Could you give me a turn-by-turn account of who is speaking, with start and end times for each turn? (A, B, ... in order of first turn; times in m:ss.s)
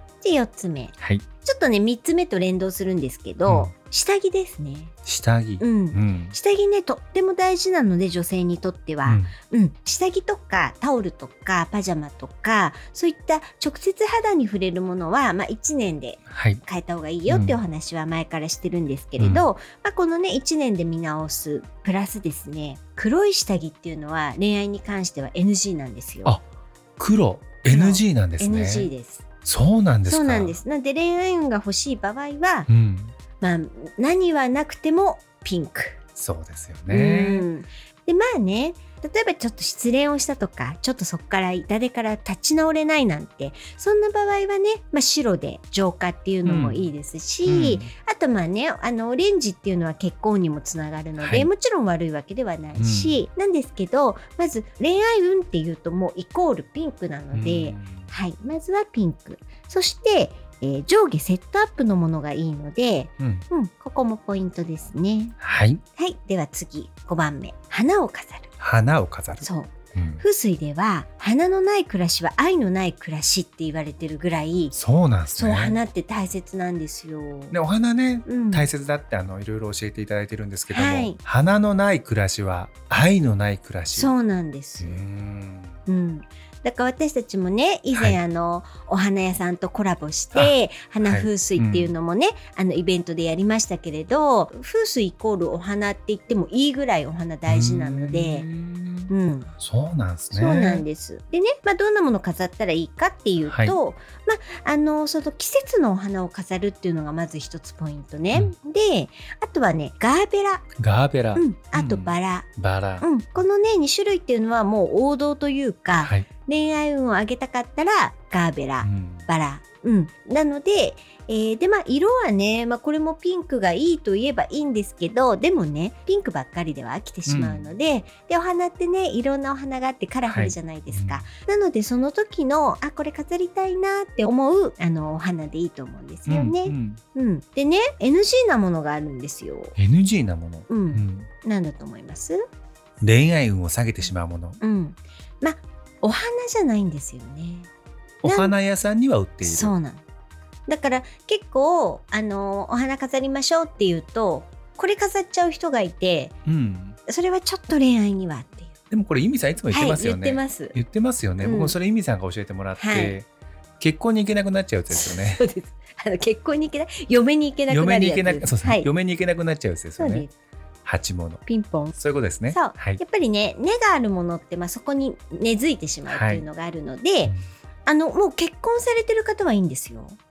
0:00.2-0:04.9 A
0:01.0-0:01.2 B
0:03.5-0:03.7 B
0:05.1-0:06.4 B
0:05.6-0:26.4 A
0:09.0-0:09.3 B
0:16.3-0:16.6 B
0:17.3-0:17.6 B
0:19.2-0:19.5 B
0:27.0-0:28.9 B
0:27.6-0:29.2 A
0:29.4-0:30.6 B
0:30.0-0:32.7 A
0:32.7-0:33.1 B
0:33.4-0:36.0 A
0:36.2-0:37.5 B
0:36.9-1:05.4 A
0:46.4-0:46.9 B
0:47.5-0:47.9 B
0:51.2-0:51.5 B
0:52.8-0:53.2 B
0:57.3-0:58.1 B
1:03.2-1:03.4 B
1:05.4-1:05.8 B
1:06.0-1:08.5 A
1:08.6-1:10.2 B
1:09.4-1:14.8 A
1:14.7-1:15.8 B
1:15.4-1:17.6 A
1:17.5-1:24.1 B
1:18.3-1:18.7 A
1:20.7-1:21.2 A
1:23.9-1:25.0 A
1:24.8-1:25.8 B
1:25.9-1:38.5 A
1:27.9-1:28.2 B
1:30.3-1:31.9 B
1:37.5-1:40.8 B
1:39.1-1:39.5 A
1:40.3-1:50.7 A
1:43.4-1:43.8 B
1:50.8-1:53.1 B
1:51.4-2:19.8 A
1:56.0-1:56.3 B
1:58.8-1:59.3 B
2:07.3-2:07.7 B
2:10.2-2:11.3 B
2:16.3-2:17.0 B
2:19.8-2:21.3 B
2:20.7-2:22.4 A
2:23.0-2:24.6 B
2:24.6-2:27.7 A
2:28.2-2:29.7 B
2:28.2-2:28.5 A
2:29.4-2:30.0 A
2:30.7-2:36.4 A
2:36.5-2:37.0 B
2:37.1-2:38.7 A
2:38.9-2:43.3 B
2:39.7-2:40.8 A
2:41.4-2:41.8 A
2:42.8-2:43.2 A
2:43.8-2:45.4 B
2:44.9-2:48.9 A
2:47.7-2:50.3 B
2:50.0-2:50.3 A
2:50.8-2:51.4 B
2:51.5-2:52.0 A
2:52.0-2:53.0 B
2:52.5-2:57.3 A
2:56.1-2:56.4 B
2:57.9-3:00.2 A